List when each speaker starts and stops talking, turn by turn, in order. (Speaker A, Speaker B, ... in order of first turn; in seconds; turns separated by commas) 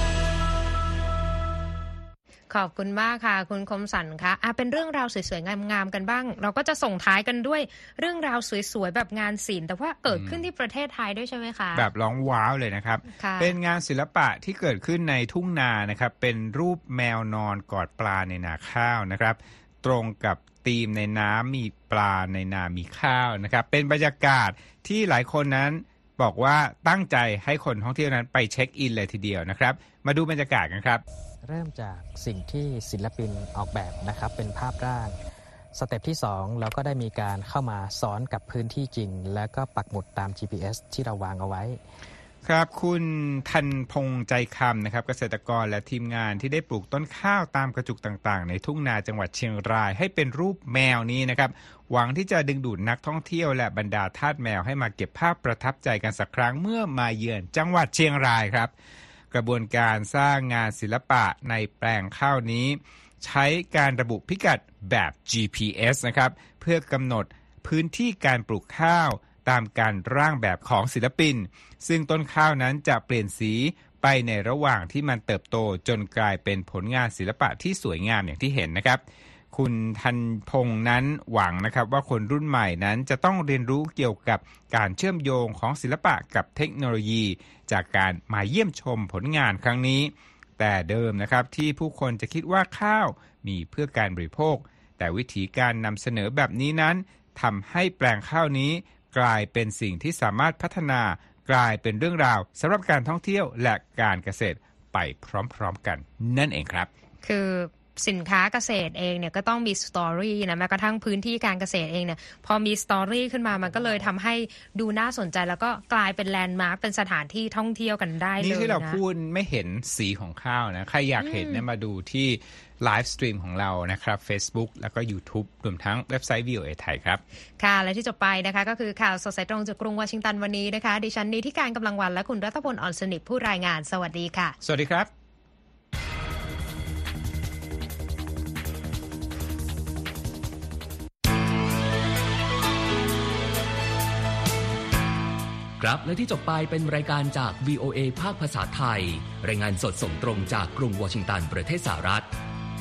Speaker A: 2.5-11.9, Speaker B: 10.1-10.4, Speaker B: 11.8-31.0, Speaker A: 13.2-13.6, Speaker C: 31.5-35.2, Speaker C: 35.8-41.8, Speaker B: 42.5-58.7, Speaker B: 59.3-79.0, Speaker B: 79.5-106.9, Speaker A: 107.2-119.0, Speaker B: 118.4-127.2, Speaker A: 121.2-121.6, Speaker A: 127.6-134.6, Speaker B: 134.6-135.1, Speaker D: 145.8-152.3